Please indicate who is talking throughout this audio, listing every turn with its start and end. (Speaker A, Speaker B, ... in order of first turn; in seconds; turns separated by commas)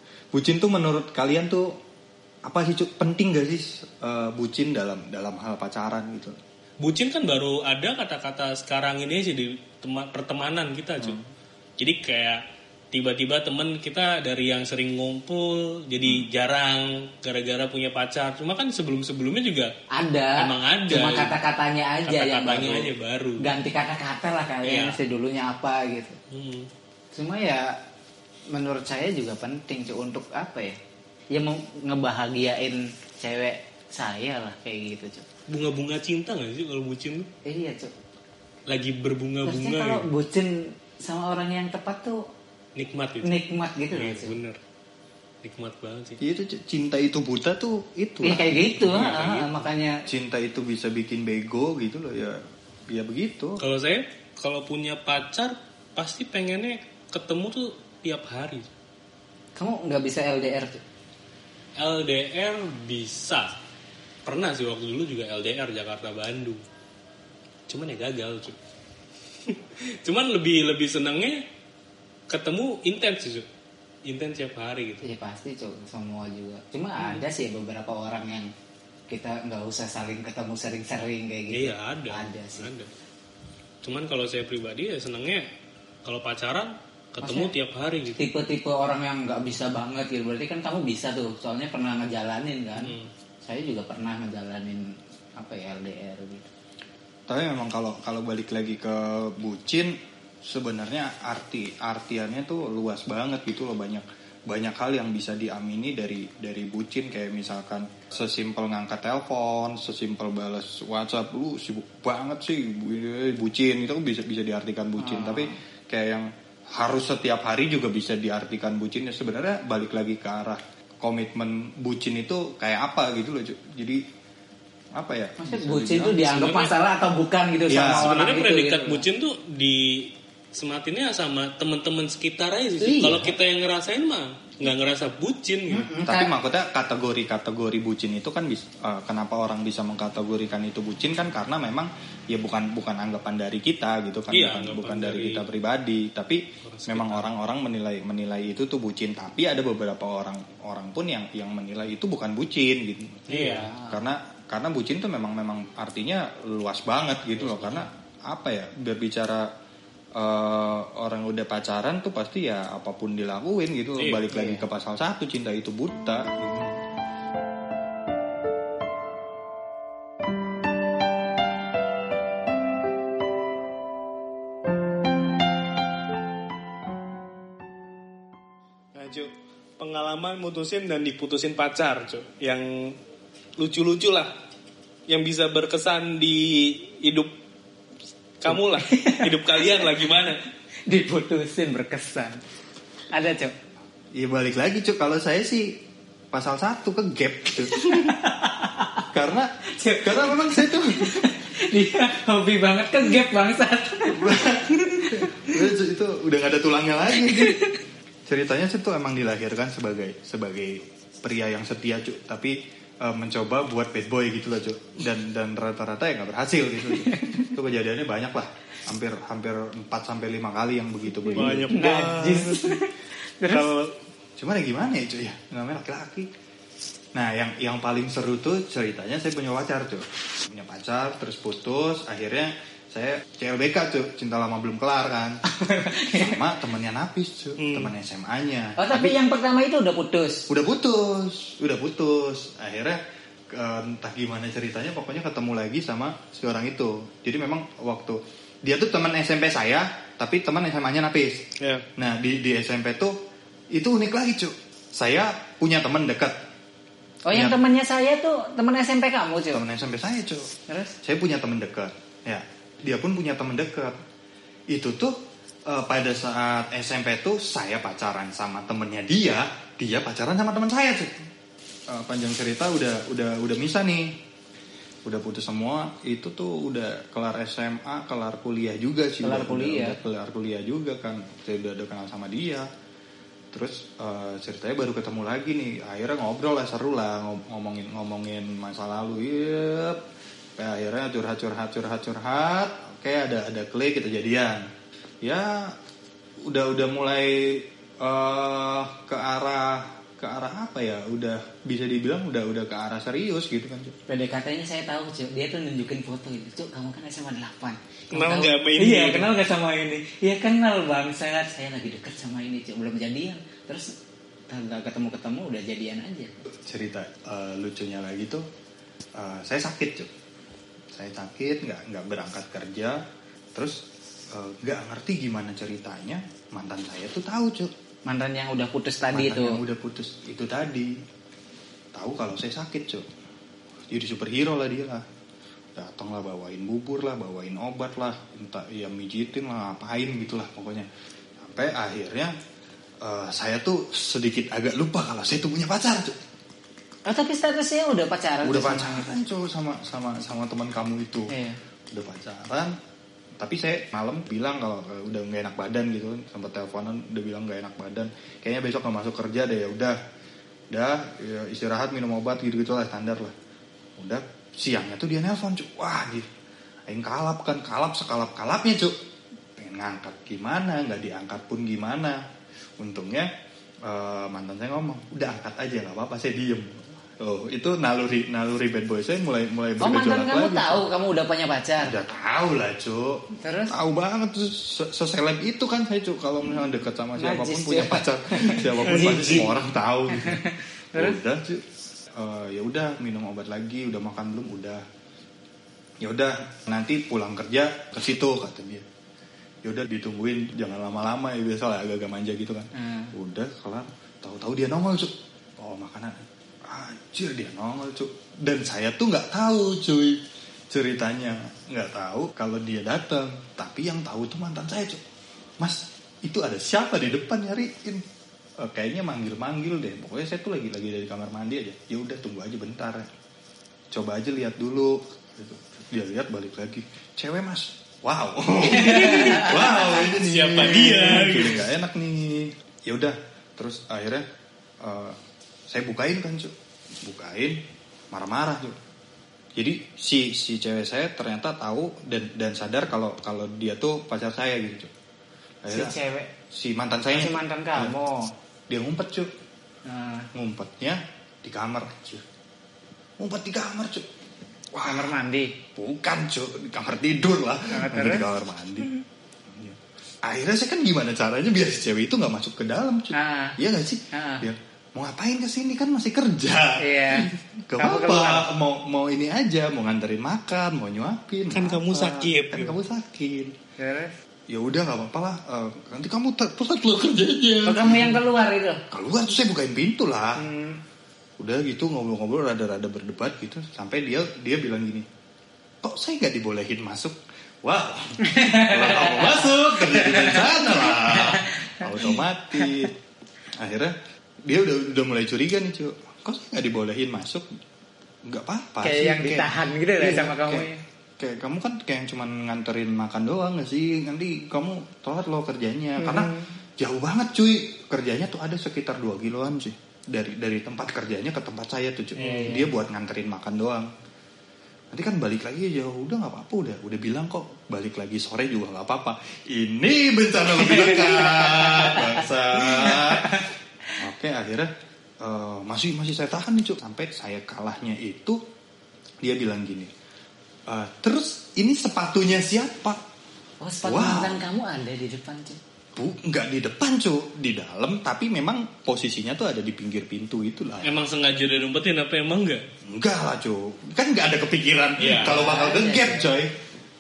Speaker A: 0.3-1.8, Speaker A: 2.5-6.4, Speaker B: 6.8-11.2, Speaker B: 11.8-12.4, Speaker B: 12.9-19.7, Speaker C: 20.0-26.2, Speaker B: 20.4-21.4, Speaker B: 22.1-23.5, Speaker B: 24.6-25.0, Speaker B: 26.3-26.7, Speaker C: 27.1-27.6, Speaker C: 28.5-30.8, Speaker C: 31.3-35.3, Speaker B: 35.5-37.3, Speaker C: 37.5-37.9, Speaker B: 38.7-40.1, Speaker C: 39.4-42.2, Speaker B: 42.8-43.3, Speaker C: 43.2-44.4, Speaker B: 43.9-44.6, Speaker B: 45.4-46.2, Speaker A: 46.2-48.7, Speaker C: 48.2-50.0, Speaker B: 48.7-49.6, Speaker A: 50.1-53.6, Speaker B: 53.6-58.7, Speaker C: 59.5-60.8, Speaker B: 61.8-63.5, Speaker B: 64.3-66.6, Speaker B: 67.7-68.6, Speaker B: 69.5-71.4, Speaker B: 72.3-73.5, Speaker B: 74.0-75.0, Speaker C: 75.0-78.5, Speaker B: 77.0-77.2, Speaker C: 79.1-82.7, Speaker B: 81.5-82.9, Speaker B: 83.8-85.4, Speaker B: 86.0-88.2, Speaker C: 87.2-87.5, Speaker C: 88.2-94.8, Speaker B: 92.8-93.1, Speaker C: 95.4-96.5, Speaker A: 97.3-124.0, Speaker C: 115.0-115.6, Speaker A: 125.0-126.3, Speaker C: 125.4-129.0, Speaker B: 126.2-126.7, Speaker A: 127.7-128.2, Speaker B: 127.9-135.9, Speaker C: 132.8-133.3, Speaker C: 135.7-136.3, Speaker A: 135.8-159.5, Speaker B: 144.3-145.4, Speaker B: 146.6-147.3, Speaker B: 153.3-153.7, Speaker C: 153.3-154.0, Speaker B: 157.4-157.9, Speaker A: 160.2-166.8, Speaker B: 164.0-164.3, Speaker C: 164.3-164.6, Speaker B: 178.9-183.0, Speaker B: 183.6-184.3, Speaker B: 185.1-187.3, Speaker B: 188.4-190.4, Speaker C: 188.5-189.9, Speaker C: 190.9-192.4, Speaker C: 193.1-193.5, Speaker A: 194.1-195.8, Speaker A: 196.3-198.2, Speaker C: 197.7-198.9, Speaker A: 199.1-199.5, Speaker C: 199.7-204.4, Speaker A: 200.0-201.2, Speaker A: 204.1-207.6, Speaker C: 205.1-205.5, Speaker C: 207.2-207.8, Speaker A: 208.3-221.8, Speaker C: 216.9-217.6, Speaker C: 221.3-223.7, Speaker B: 221.3-222.8, Speaker B: 223.5-223.9, Speaker A: 224.4-226.3, Speaker A: 227.2-235.4, Speaker C: 235.6-236.4, Speaker A: 236.1-239.2, Speaker B: 237.6-237.9, Speaker C: 238.8-240.4, Speaker A: 240.5-243.0, Speaker A: 243.5-251.4, Speaker B: 251.6-251.8, Speaker A: 252.0-253.2, Speaker A: 253.7-256.4, Speaker C: 257.3-259.6, Speaker A: 257.3-257.6, Speaker A: 259.5-260.5, Speaker A: 261.0-264.0, Speaker A: 264.7-271.3, Speaker A: 271.9-274.1, Speaker A: 275.1-282.7, Speaker C: 279.2-280.0, Speaker A: 283.5-290.0, Speaker A: 290.6-294.6, Speaker A: 295.2-295.8, Speaker A: 296.5-303.9, Speaker C: 304.1-313.9, Speaker B: 308.1-309.3, Speaker C: 314.5-316.3, Speaker A: 316.7-318.4, Speaker A: 319.2-320.1, Speaker A: 320.9-323.0, Speaker A: 323.6-323.8, Speaker A: 324.3-327.7, Speaker C: 328.1-329.6, Speaker A: 329.1-331.0, Speaker A: 331.9-333.1, Speaker A: 333.9-335.1, Speaker A: 335.8-342.3, Speaker A: 343.0-346.2, Speaker C: 347.1-349.1, Speaker A: 348.4-351.4, Speaker C: 351.3-351.6, Speaker A: 351.9-352.8, Speaker A: 353.4-360.0, Speaker A: 360.7-363.3, Speaker A: 364.0-366.3, Speaker A: 366.9-368.9, Speaker A: 369.6-372.2, Speaker A: 372.8-373.3, Speaker A: 373.9-380.9, Speaker C: 379.8-381.9, Speaker A: 381.8-390.4, Speaker C: 383.4-383.7, Speaker C: 387.2-391.2, Speaker A: 390.9-394.8, Speaker A: 396.0-398.9, Speaker A: 399.6-415.0, Speaker C: 402.8-403.1, Speaker A: 415.6-418.1, Speaker A: 418.6-423.1, Speaker A: 423.9-434.2, Speaker B: 428.7-431.7, Speaker A: 434.8-435.2, Speaker A: 435.7-437.6, Speaker A: 438.1-438.8, Speaker A: 439.6-444.9, Speaker A: 445.6-446.0, Speaker C: 445.7-446.3, Speaker A: 446.5-448.0, Speaker C: 447.1-448.3, Speaker A: 448.7-449.3, Speaker C: 449.9-450.3, Speaker A: 450.3-452.2, Speaker A: 453.2-454.1, Speaker A: 454.7-455.1, Speaker C: 454.8-455.5, Speaker A: 455.8-458.9, Speaker C: 457.7-458.3, Speaker A: 459.5-473.5, Speaker C: 463.1-463.6, Speaker C: 464.1-464.5, Speaker C: 466.8-468.5, Speaker B: 471.5-472.8, Speaker C: 473.8-474.1, Speaker A: 474.5-478.2, Speaker C: 477.7-478.8, Speaker A: 478.9-480.4, Speaker C: 480.4-480.8, Speaker A: 481.4-485.1, Speaker A: 485.8-492.9, Speaker C: 488.3-492.7, Speaker A: 493.6-493.9, Speaker A: 494.4-497.4, Speaker A: 498.2-513.9, Speaker C: 498.8-500.8, Speaker C: 506.0-506.5, Speaker C: 512.2-512.7, Speaker A: 514.9-523.4, Speaker C: 520.6-523.5, Speaker A: 524.0-524.7, Speaker A: 525.2-528.4, Speaker A: 529.2-529.9, Speaker A: 530.7-533.0, Speaker C: 533.6-535.6, Speaker A: 533.8-534.4, Speaker A: 536.0-541.0, Speaker B: 540.8-542.6, Speaker A: 542.9-546.6, Speaker B: 545.0-545.6, Speaker C: 545.1-546.4